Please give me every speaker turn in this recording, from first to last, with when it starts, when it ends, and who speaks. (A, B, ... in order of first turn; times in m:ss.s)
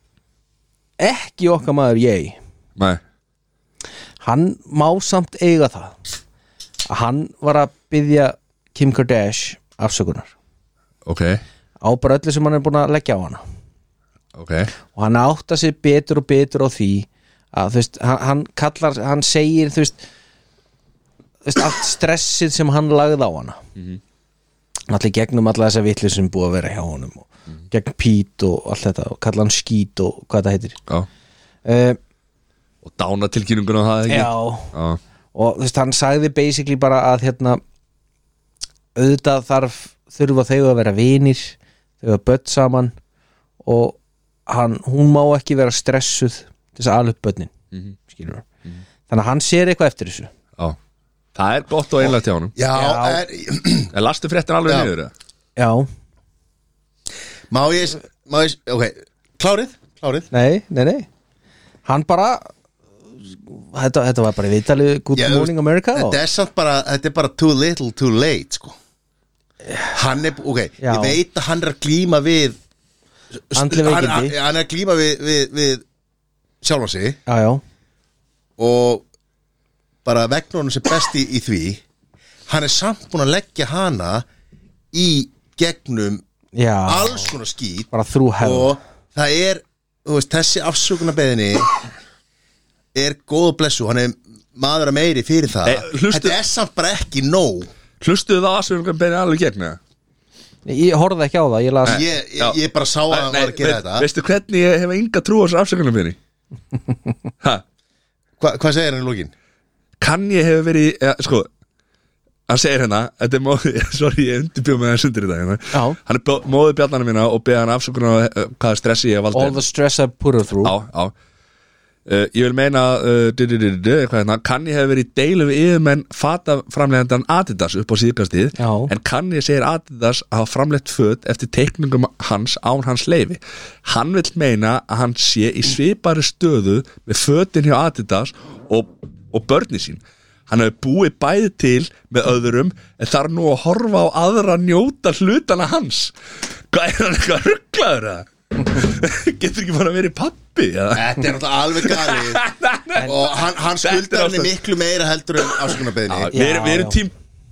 0:01.0-0:02.4 A
0:04.2-0:06.0 A
0:06.9-0:10.3 A
0:11.0-0:11.4 B
0:11.8-0:13.4 A
0:14.4-0:14.7 B
0:14.9-0:20.0 A
0:21.4-0:23.6 A
0:24.9-0:30.8 A
0:31.6-0:32.0 A
0:32.8-0:35.0 B
0:34.1-0:34.7 A
0:35.3-0:37.6 A
0:39.0-0:42.9 A
0:43.6-0:47.5 A
0:48.1-0:48.5 A
0:49.1-0:50.3 A
0:51.4-0:52.6 B
0:52.6-0:53.9 C
0:52.7-0:53.2 A
0:53.9-0:55.1 B
0:54.7-0:54.9 C
0:55.6-0:55.9 A
0:57.5-1:00.3 C
1:00.3-1:01.1 A
1:01.9-1:02.5 A
1:03.3-1:06.2 A
1:05.2-1:08.8 C
1:09.9-1:12.6 C
1:10.8-1:11.2 A
1:13.5-1:15.8 C
1:13.5-1:14.4 A
1:16.6-1:17.2 C
1:17.3-1:17.6 A
1:18.6-1:19.0 C
1:20.0-1:21.8 C
1:22.5-1:24.2 C
1:24.9-1:26.2 C
1:26.6-1:27.4 A
1:26.9-1:27.9 C
1:27.9-1:28.8 A
1:28.4-1:31.8 C
1:32.9-1:37.7 C
1:35.6-1:36.4 B
1:38.0-1:39.8 B
1:40.7-1:42.0 A
1:41.9-1:42.6 B
1:41.9-1:44.1 C
1:43.1-1:46.2 B
1:48.4-1:49.3 C
1:50.0-1:51.5 B
1:52.5-1:59.6 B
1:55.7-1:56.0 A
1:59.3-2:00.8 A
2:00.6-2:01.1 B
2:02.1-2:26.1 B
2:08.6-2:08.9 A
2:26.7-2:33.2 B
2:30.9-2:32.4 C
2:33.0-2:36.3 C
2:33.8-2:34.5 B
2:35.4-2:37.1 B
2:36.3-2:37.0 A